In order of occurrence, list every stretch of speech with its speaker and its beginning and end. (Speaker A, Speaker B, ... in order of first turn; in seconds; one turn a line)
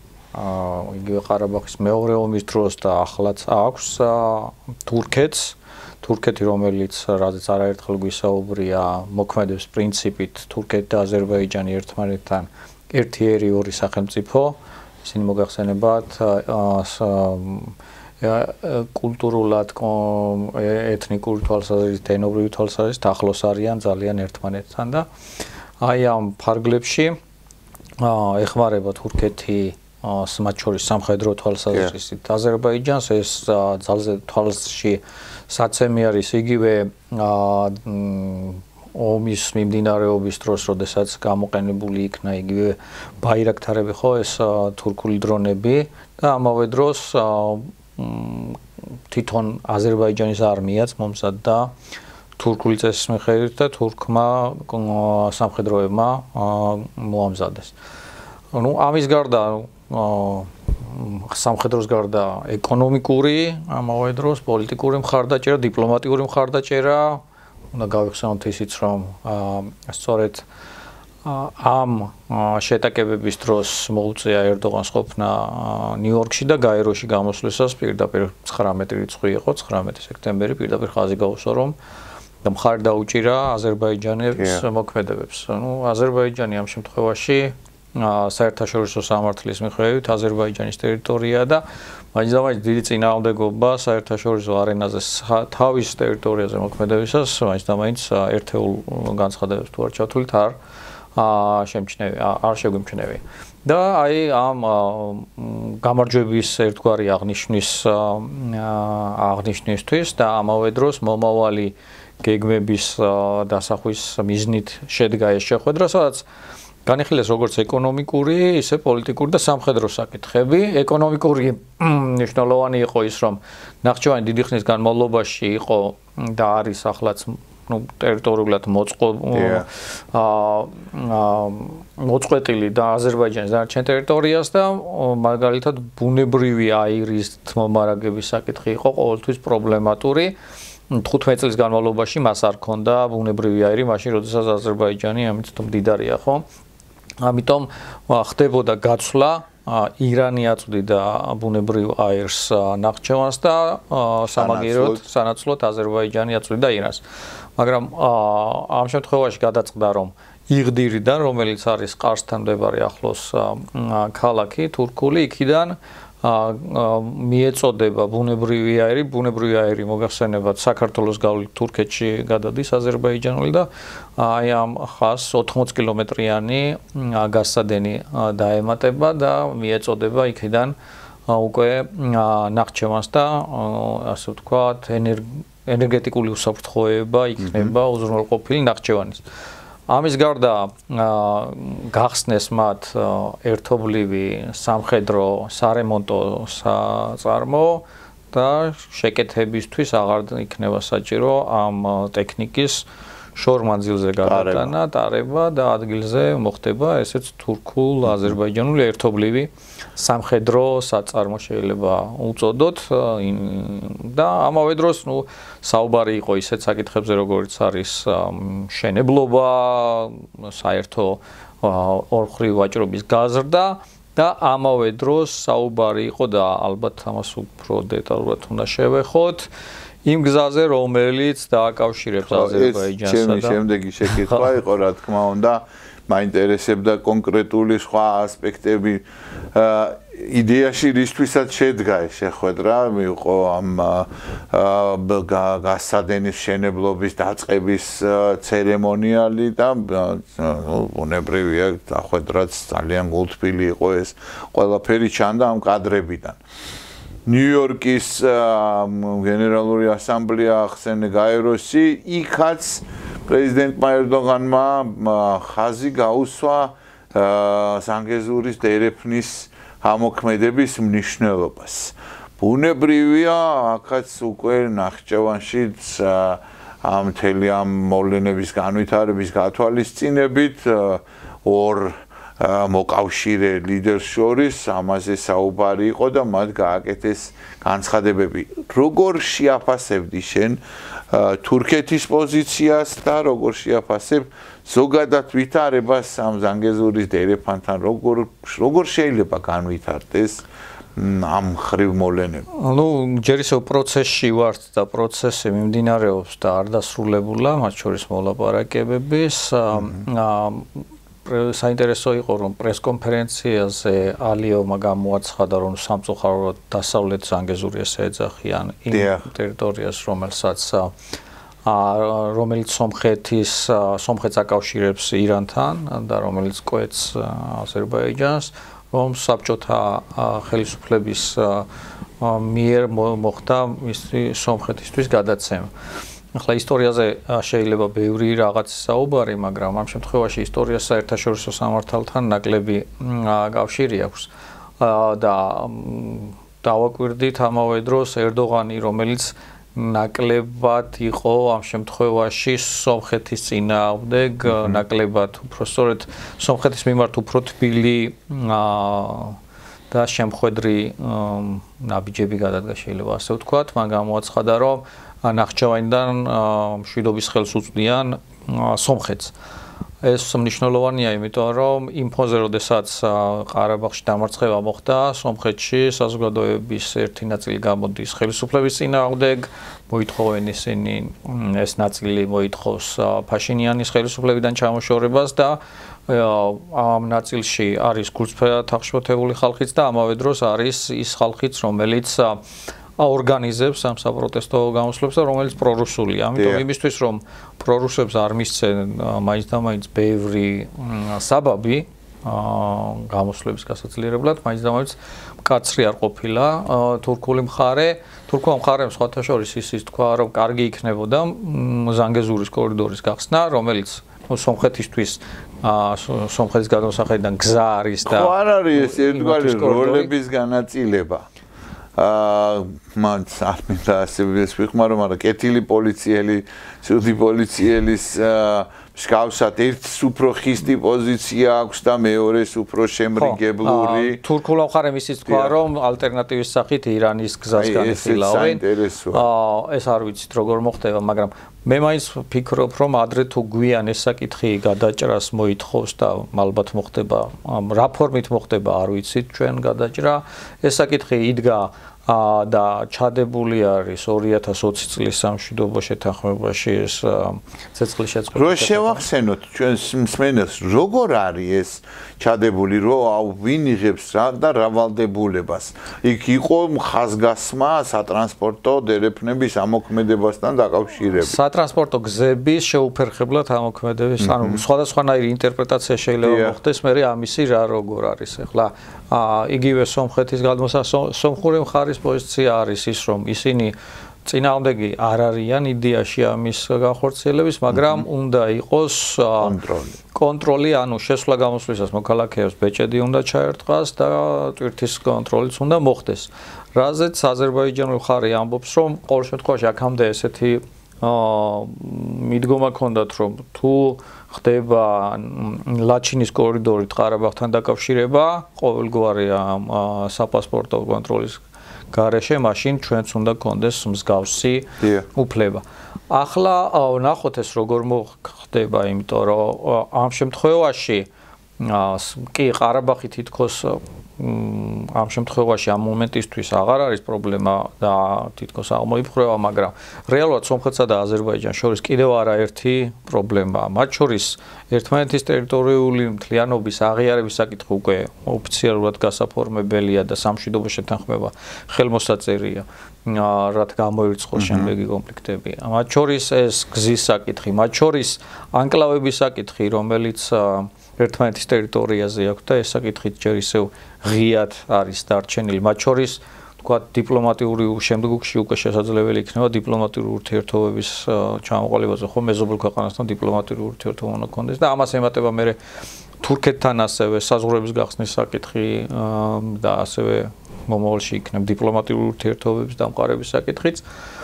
Speaker A: 0.3-25.1
Speaker A: 25.8-27.2
Speaker A: 28.0-51.7
Speaker A: 52.4-57.7
Speaker A: 58.5-67.2
Speaker A: 67.7-70.5
Speaker A: 71.2-81.8
Speaker A: 82.4-100.6
Speaker B: 84.4-84.6
Speaker A: 101.2-116.3
Speaker A: 116.8-140.4
Speaker B: 129.3-129.7
Speaker A: 140.9-146.4
Speaker A: 147.2-157.0
Speaker B: 154.3-155.0
Speaker A: 157.6-180.8
Speaker A: 181.3-189.2
Speaker B: 187.5-187.7
Speaker A: 189.9-229.5
Speaker B: 204.2-204.7
Speaker A: 230.1-234.4
Speaker B: 232.2-256.4
Speaker B: 257.3-302.5
Speaker A: 302.5-320.9
Speaker B: 318.9-319.3
Speaker A: 321.7-331.7
Speaker A: 332.2-335.7
Speaker A: 336.3-359.4
Speaker A: 359.9-369.3
Speaker A: 370.0-392.4
Speaker A: 393.0-420.1
Speaker B: 396.4-396.6
Speaker B: 418.1-421.2
Speaker B: 422.0-434.2
Speaker A: 433.2-459.1
Speaker B: 435.3-435.6
Speaker B: 437.6-439.3
Speaker B: 458.3-471.4
Speaker A: 471.2-489.6
Speaker B: 474.2-474.6
Speaker B: 476.2-476.6
Speaker B: 487.7-488.0
Speaker B: 489.4-490.0
Speaker A: 490.1-511.4
Speaker A: 511.9-521.1
Speaker B: 514.8-515.1
Speaker A: 521.6-565.6
Speaker B: 544.4-544.7
Speaker A: 566.2-573.9